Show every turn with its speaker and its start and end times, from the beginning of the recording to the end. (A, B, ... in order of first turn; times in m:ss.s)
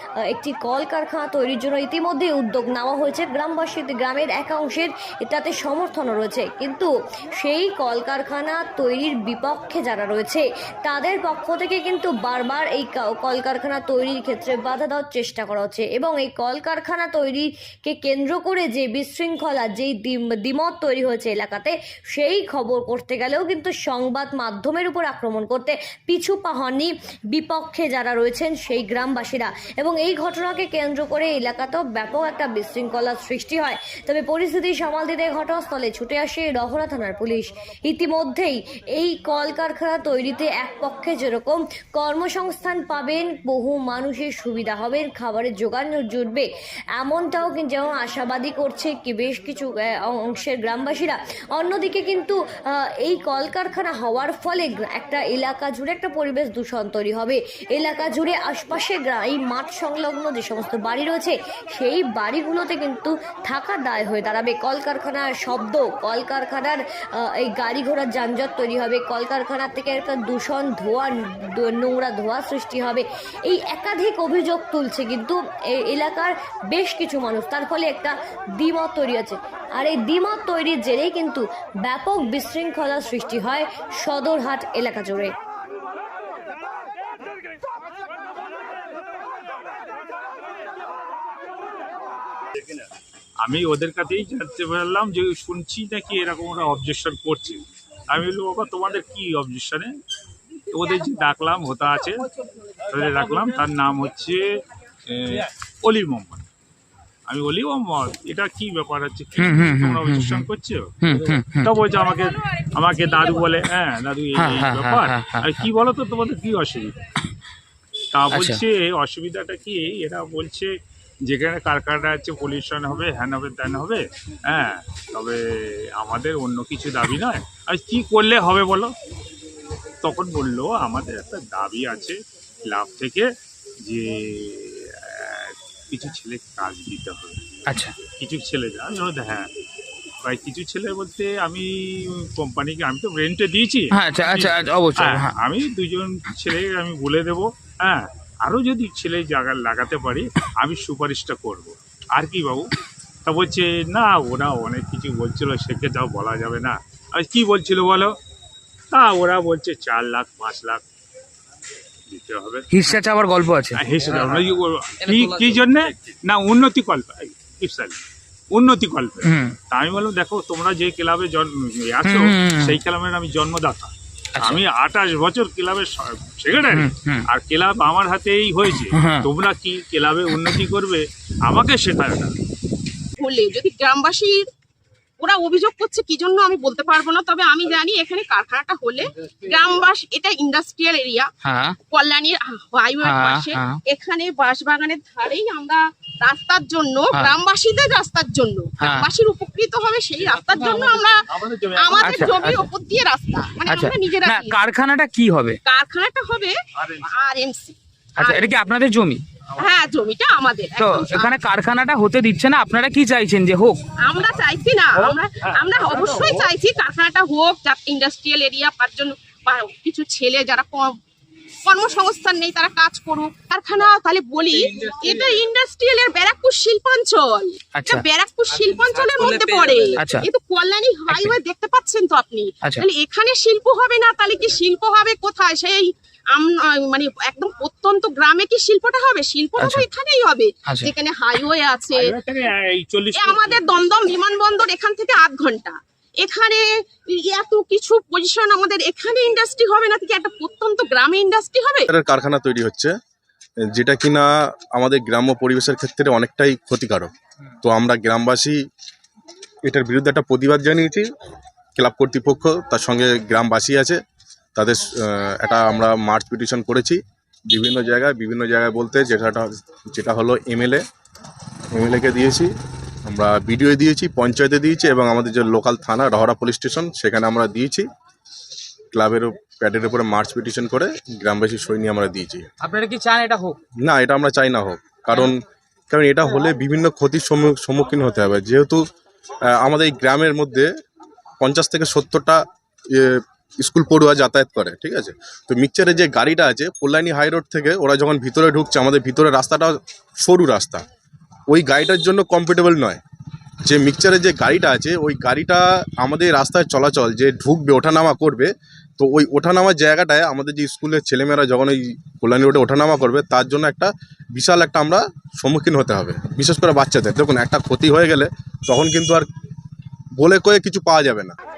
0:00.3-1:25.3 A
1:33.4-1:39.9 B
1:40.7-1:42.3 B
1:42.9-1:44.5 B
1:45.1-1:46.4 B
1:47.3-1:50.9 B
1:49.4-1:50.5 C
1:51.0-1:51.8 C
1:51.6-1:56.9 B
1:54.4-1:55.7 C
1:58.1-2:00.7 B
1:58.3-1:58.6 C
2:01.3-2:08.9 B
2:10.0-2:13.3 B
2:13.8-2:17.4 B
2:17.7-2:18.0 C
2:18.0-2:19.5 B
2:20.2-2:32.7 B
2:23.9-2:25.4 C
2:33.3-2:38.2 B
2:38.9-2:40.8 B
2:42.1-2:42.7 B
2:42.7-2:43.8 C
2:43.7-2:48.0 B
2:48.5-3:02.3 B
2:49.2-2:49.6 C
2:52.0-2:52.8 C
2:56.7-2:57.3 C
2:58.9-2:59.3 C
3:03.2-3:04.5 D
3:05.2-3:11.3 D
3:11.4-3:11.8 C
3:11.9-3:24.6 D
3:13.0-3:13.8 C
3:18.8-3:19.1 C
3:20.2-3:22.3 B
3:22.0-3:22.6 C
3:23.7-3:25.6 C
3:25.6-3:28.5 D
3:28.2-3:29.2 C
3:29.6-3:31.3 D
3:30.8-3:33.8 C
3:34.0-3:41.0 D
3:41.6-4:02.1 D
3:47.7-3:48.0 C
3:50.0-3:50.3 C
3:51.1-3:51.4 C
3:59.6-3:59.9 C
4:02.0-4:03.9 B
4:03.1-4:11.9 D
4:11.9-4:12.9 E
4:13.7-4:17.1 E
4:17.6-4:18.6 E
4:19.6-4:21.1 E
4:21.8-4:24.0 E
4:24.6-4:30.8 E
4:31.7-4:32.5 E
4:33.1-4:37.9 E
4:38.9-4:42.5 E
4:42.6-4:43.6 C
4:43.8-4:45.4 E
4:45.9-4:48.8 E
4:49.5-4:50.7 E
4:51.4-5:00.8 E
5:01.5-5:03.0 E
5:03.6-5:19.3 E
5:20.2-5:21.4 E